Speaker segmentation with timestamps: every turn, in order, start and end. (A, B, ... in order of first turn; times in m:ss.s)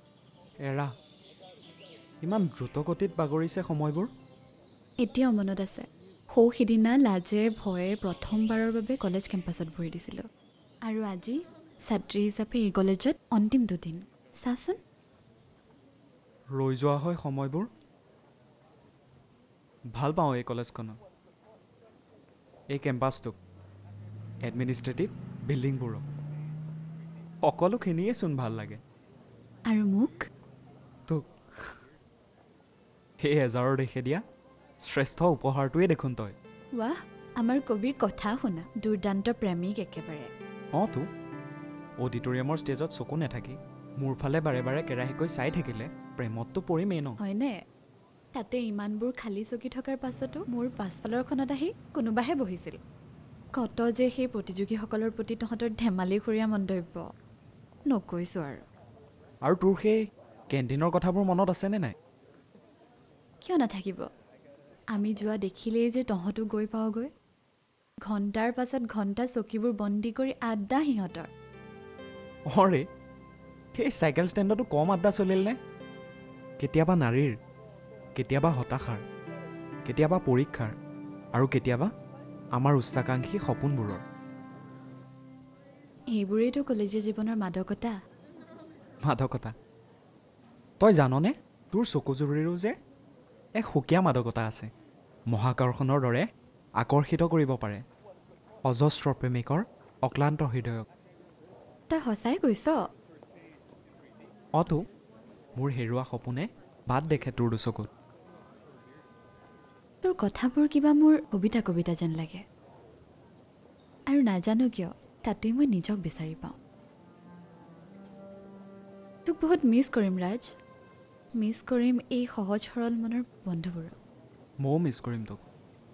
0:00.6-0:00.9 A
0:02.2-0:04.1 A
0:05.0-0:10.2 B
0:10.8-0:14.8 B
0:16.6-0:17.7 A
0:19.9-0:21.0 A
0:22.7-0:23.4 A
0:24.4-0:26.0 A
0:27.4-0:28.8 A
0:29.7-0:30.2 B
0:31.1-0:31.7 A
0:33.2-0:34.2 A
0:34.8-0:36.3 A
0:36.8-0:40.3 B
0:40.7-0:41.0 A
0:42.0-0:47.2 A
0:47.2-0:47.5 B
0:48.4-0:52.8 B
0:53.6-0:57.0 B
0:57.9-0:58.6 B
0:59.4-1:00.0 A
1:00.5-1:01.9 A
1:03.4-1:04.0 B
1:04.9-1:07.1 B
1:08.0-1:11.3 B
1:12.5-1:12.8 A
1:13.7-1:15.6 A
1:16.6-1:17.3 A
1:18.2-1:19.0 A
1:19.9-1:20.7 A
1:21.3-1:21.9 A
1:22.6-1:24.0 A
1:26.1-1:28.0 B
1:29.0-1:29.5 A
1:30.8-1:32.7 A
1:33.6-1:34.7 A
1:35.3-1:36.2 A
1:36.8-1:37.8 A
1:38.7-1:40.8 A
1:41.9-1:42.8 B
1:45.6-1:47.9 A
1:50.0-1:52.4 B
1:54.1-1:56.5 B
1:59.3-2:00.5 B
2:01.4-2:04.0 B
2:04.6-2:05.4 A